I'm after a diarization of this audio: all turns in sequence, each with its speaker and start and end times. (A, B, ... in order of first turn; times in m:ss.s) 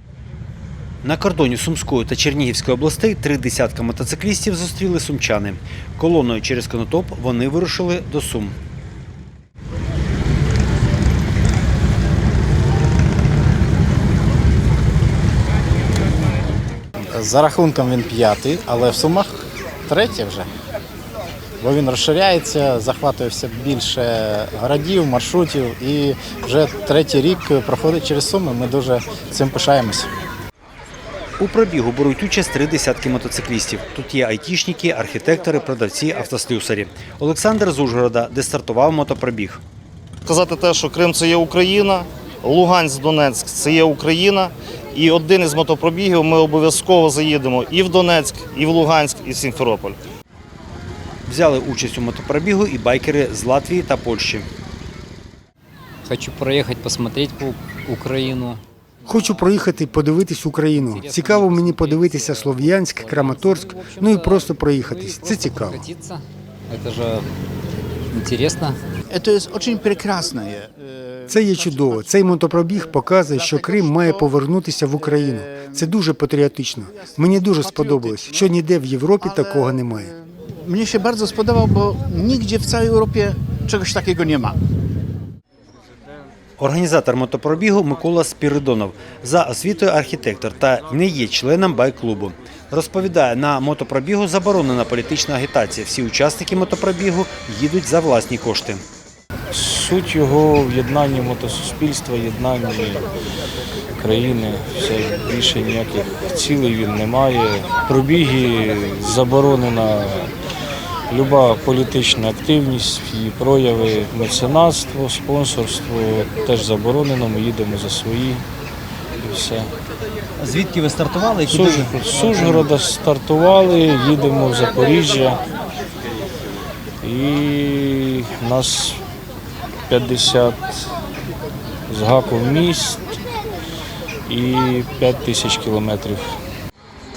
0:01.0-0:08.6 A
0:17.1-0:20.5 B
0:21.6-0:30.1 B
0:31.4-0:39.6 A
0:40.3-0:50.0 C
0:51.3-0:54.5 A
0:56.0-0:58.6 D
0:59.1-1:05.9 E
1:00.8-1:07.3 D
1:08.1-1:08.8 D
1:09.1-1:14.3 F
1:11.3-1:20.1 E
1:15.0-1:16.0 F
1:17.0-1:18.5 F
1:19.2-1:24.6 F
1:26.6-1:38.8 A
1:39.5-1:43.1 G
1:44.0-1:50.3 G
1:51.1-1:58.4 G
1:59.2-1:59.7 G
2:00.4-2:02.7 A
2:01.5-2:05.4 G
2:07.0-2:09.0 G
2:09.9-2:10.8 G
2:11.9-2:13.2 G
2:14.3-2:16.2 G